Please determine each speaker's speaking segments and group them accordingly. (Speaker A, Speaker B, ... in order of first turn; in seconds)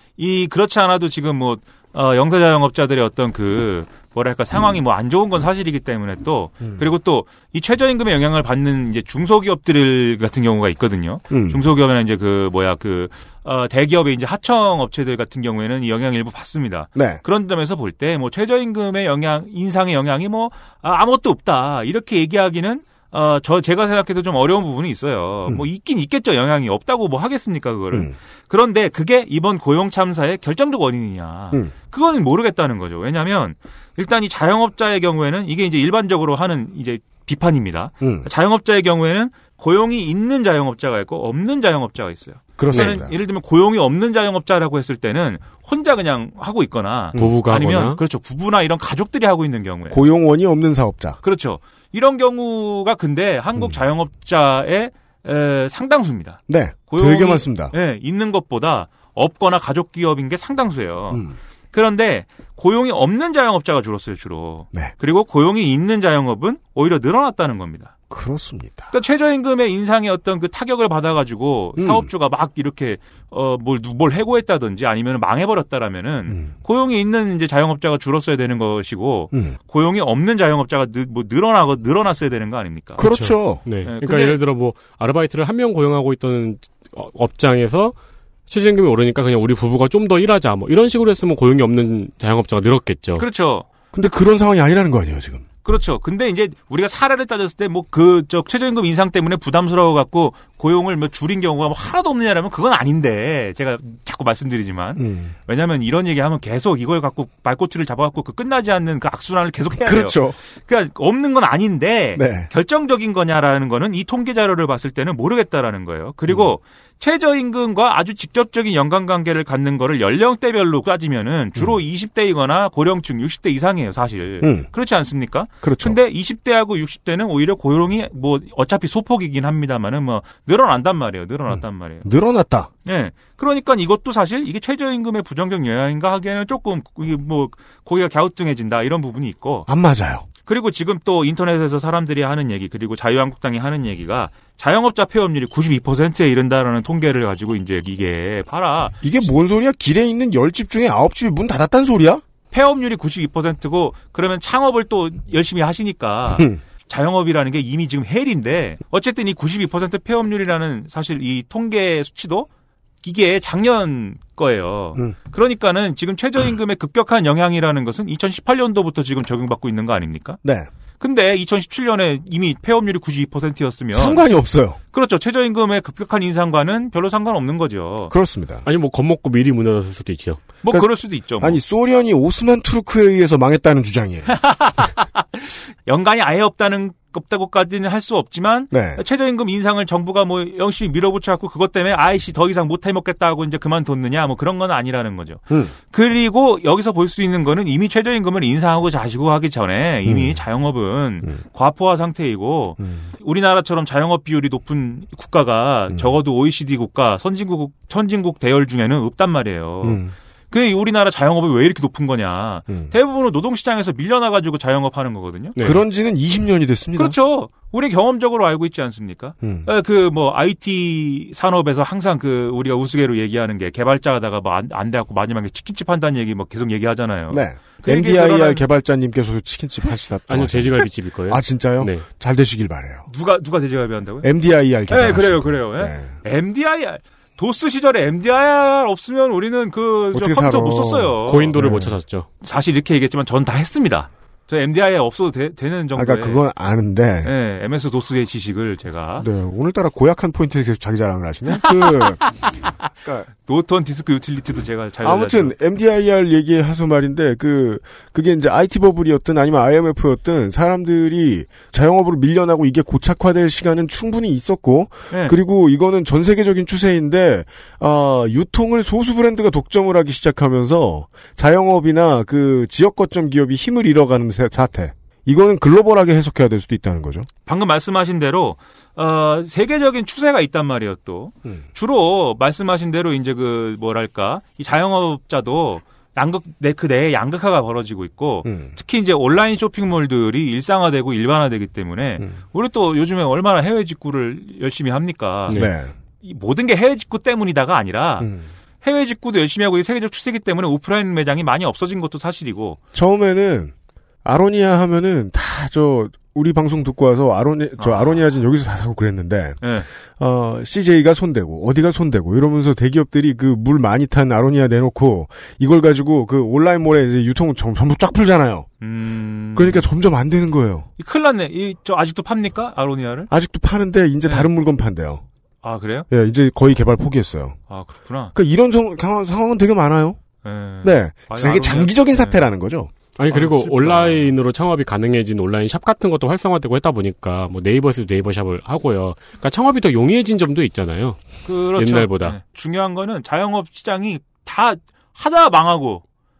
Speaker A: 0.2-50.0, 51.2-67.9, 68.9-83.0, 83.8-84.4, 93.2-93.6, 95.6-132.0, 132.8-139.7, 140.4-149.3, 152.5-162.5, 163.0-170.4, 171.0-174.2, 174.9-178.1, 180.6-181.6, 184.3-215.5, 216.9-228.6, 233.1-234.3, 234.9-241.6, 242.4-246.4, 247.2-249.3, 253.4-255.5, 277.4-295.6, 296.2-298.3, 298.8-302.8, 307.8-308.2, 309.6-309.9, 318.8-319.9, 321.0-323.3, 325.6-326.1, 327.7-328.3, 330.4-332.4, 333.3-334.3, 341.4-346.0
Speaker B: 11.3-11.6, 16.9-17.2, 38.0-38.3, 42.6-43.1, 49.9-51.2, 56.5-57.7, 61.1-61.4, 68.1-68.9, 71.8-72.1, 83.0-83.6, 93.9-95.4, 105.0-105.3, 109.7-110.4, 112.2-112.5, 116.3-116.5, 124.4-124.7, 125.6-126.0, 131.5-132.7, 139.7-140.3, 149.0-152.2, 156.3-156.6, 170.4-170.7, 173.9-174.8, 178.1-178.7, 180.7-184.3, 188.7-189.0, 200.0-200.4, 202.8-203.1, 209.8-210.1, 212.7-212.9, 215.6-217.2, 219.4-219.7, 227.3-233.1, 234.2-236.2, 240.1-241.9, 245.9-247.3, 249.2-253.3, 255.0-277.3, 288.4-288.7, 295.5-295.9, 298.2-298.5, 302.9-303.7, 304.2-309.6, 310.2-318.7, 319.5-320.9, 323.3-325.2, 326.1-327.6, 328.3-330.2, 330.8-332.9
Speaker C: 42.7-43.0, 47.2-48.0, 83.0-87.9, 88.5-93.2, 178.6-180.4, 230.3-232.0, 241.3-242.3, 333.2-342.4